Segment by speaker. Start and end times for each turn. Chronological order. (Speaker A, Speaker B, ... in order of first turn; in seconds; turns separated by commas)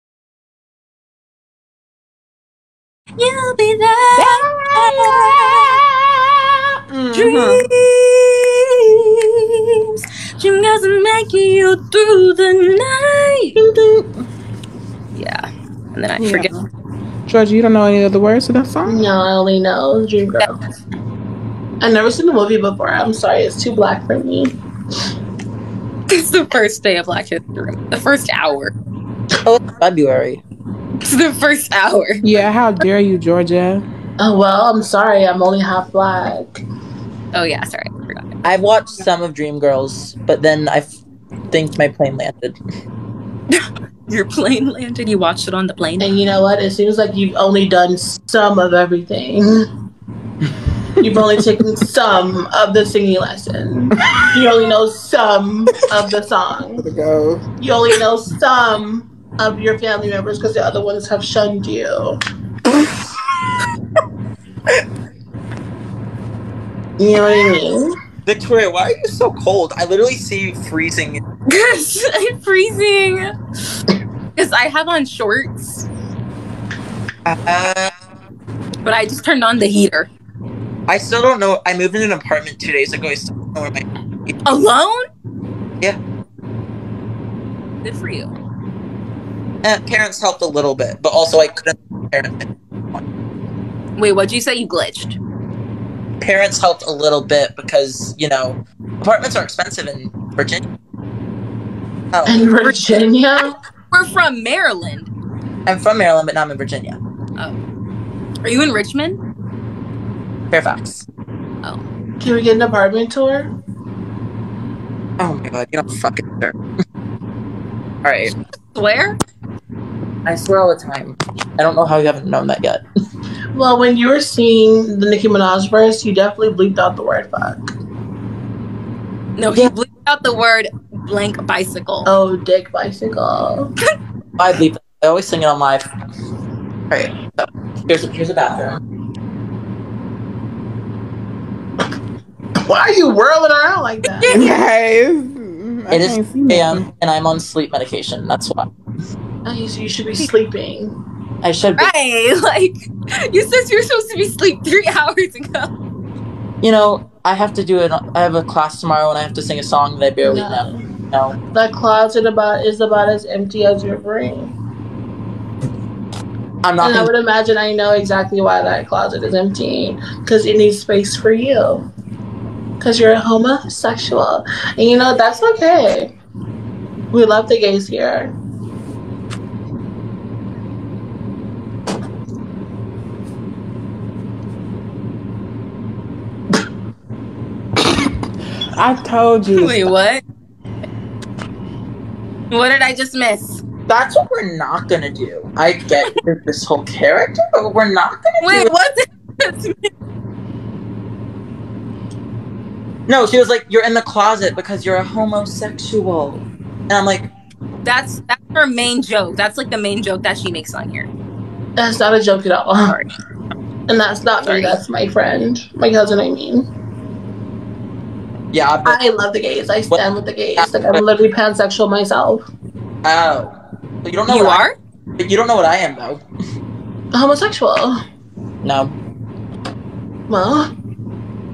Speaker A: 3.2-5.8, Speaker B: 4.2-5.8, Speaker B: 6.9-7.6, Speaker A: 7.1-13.6, Speaker B: 13.6-14.2, Speaker A: 15.1-16.5, Speaker B: 16.2-16.7, Speaker B: 17.3-19.0, Speaker C: 18.9-20.6, Speaker C: 21.8-24.5, Speaker A: 26.1-28.7, Speaker D: 29.4-30.4, Speaker A: 31.0-32.2, Speaker B: 32.2-33.8, Speaker C: 34.2-36.6, Speaker A: 37.3-38.3, Speaker D: 38.4-41.0, Speaker D: 41.5-42.6, Speaker A: 43.5-46.2, Speaker C: 46.0-49.6, Speaker C: 51.0-56.8, Speaker B: 56.8-57.4, Speaker C: 57.6-62.2, Speaker C: 67.0-67.9, Speaker D: 68.2-71.2, Speaker A: 71.5-73.3, Speaker A: 74.3-75.9, Speaker D: 77.2-77.9, Speaker A: 78.8-80.1, Speaker D: 80.9-84.3, Speaker A: 84.4-85.1, Speaker A: 87.8-88.3, Speaker D: 89.6-92.4, Speaker A: 94.0-95.2, Speaker D: 96.2-100.6, Speaker D: 102.1-103.0, Speaker C: 102.3-103.5, Speaker A: 103.9-105.1, Speaker D: 105.7-107.0, Speaker A: 108.4-109.2, Speaker D: 110.5-111.0, Speaker C: 111.6-113.5, Speaker D: 115.2-116.6, Speaker D: 118.0-118.3, Speaker A: 118.7-119.2, Speaker D: 120.2-122.8, Speaker C: 123.5-127.7, Speaker A: 129.4-132.1, Speaker C: 132.0-133.7, Speaker D: 134.4-135.9, Speaker D: 136.9-138.8, Speaker C: 142.6-144.4, Speaker A: 144.2-144.5, Speaker B: 144.3-146.8, Speaker D: 145.9-148.7, Speaker C: 149.4-150.9, Speaker D: 151.4-151.9, Speaker A: 151.8-155.7, Speaker D: 156.6-161.3, Speaker C: 160.2-160.8, Speaker C: 161.5-164.5, Speaker D: 166.6-167.1, Speaker C: 166.8-171.9, Speaker C: 172.8-176.1, Speaker C: 177.1-178.3, Speaker B: 188.7-189.9, Speaker A: 189.6-190.2, Speaker A: 192.5-193.6, Speaker D: 193.9-198.7, Speaker A: 198.4-199.9, Speaker D: 203.1-207.3, Speaker A: 207.8-211.1, Speaker C: 211.8-213.0, Speaker C: 213.9-216.7, Speaker A: 214.4-214.8, Speaker D: 218.5-219.0, Speaker C: 218.8-222.5, Speaker D: 220.6-221.0, Speaker D: 223.0-223.5, Speaker D: 224.0-226.2, Speaker A: 224.3-224.8, Speaker C: 227.1-228.0, Speaker D: 228.6-228.9, Speaker C: 230.3-230.7